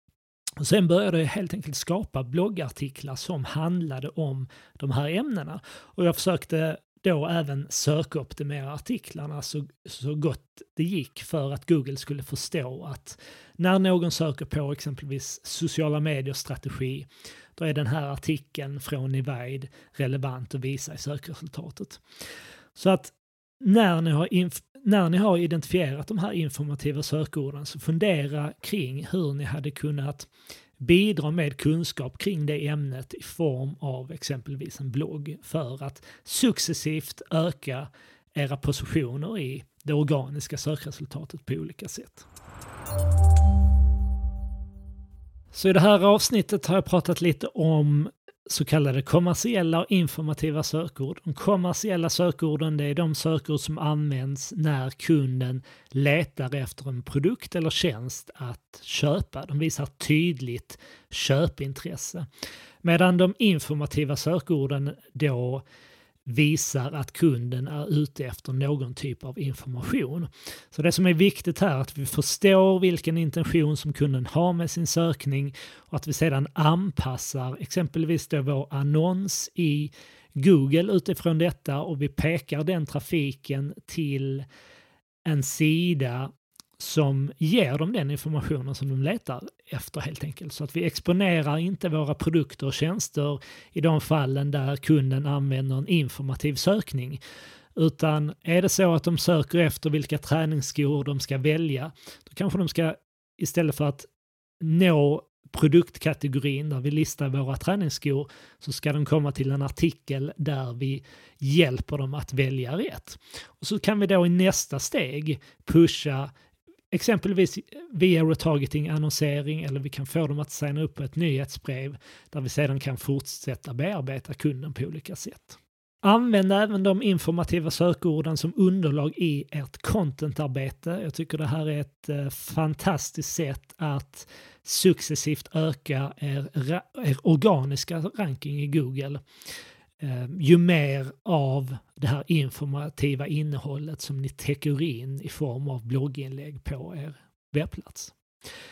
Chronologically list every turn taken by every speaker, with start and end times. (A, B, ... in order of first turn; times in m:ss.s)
0:00.6-0:22.0 A
0:22.8-0:42.3 A
0:45.5-1:02.3 A
1:02.8-1:05.7 A
1:06.3-1:24.5 A
1:25.3-1:37.2 A
1:37.8-1:44.1 A
1:44.6-1:56.3 A
1:56.9-2:19.2 A
2:20.0-2:28.2 A